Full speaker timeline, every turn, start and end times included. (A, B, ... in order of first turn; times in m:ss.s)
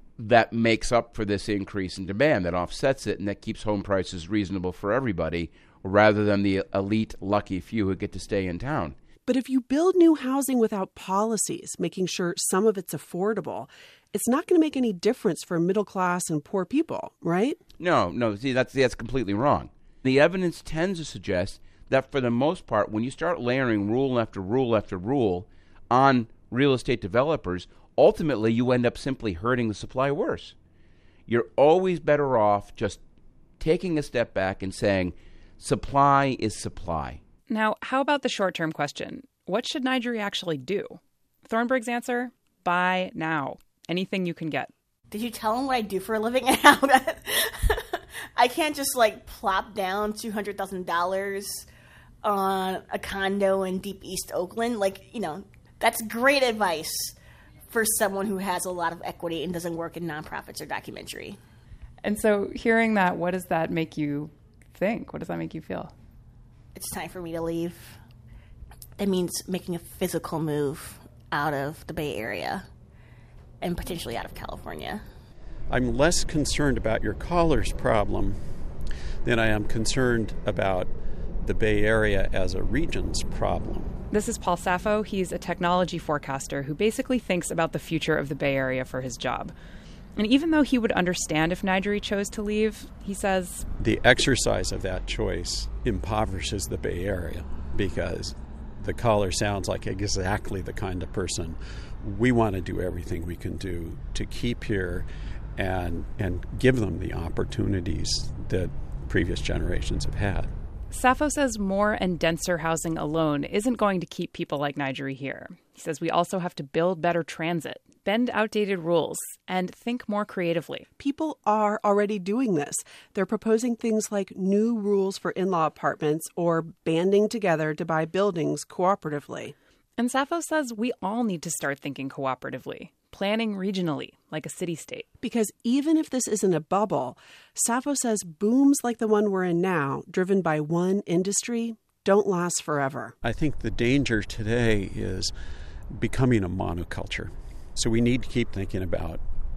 0:00.2-0:09.0 A
0:09.2-0:17.6 B
0:17.8-0:30.5 A
0:31.3-0:33.0 A
0:33.6-0:37.2 A
0:37.5-0:44.7 C
0:45.1-0:51.6 D
0:52.2-0:57.1 D
0:57.7-1:01.4 D
1:02.0-1:05.9 C
1:06.7-1:08.0 D
1:09.0-1:12.6 D
1:13.6-1:15.0 D
1:15.7-1:18.4 E
1:19.2-1:23.9 E
1:24.1-1:29.5 C
1:30.2-1:33.6 C
1:33.8-1:50.5 E
1:50.9-2:00.8 C
2:01.0-2:09.5 B
2:10.0-2:15.1 C
2:15.2-2:23.1 B
2:23.2-2:25.3 E
2:25.9-2:29.2 E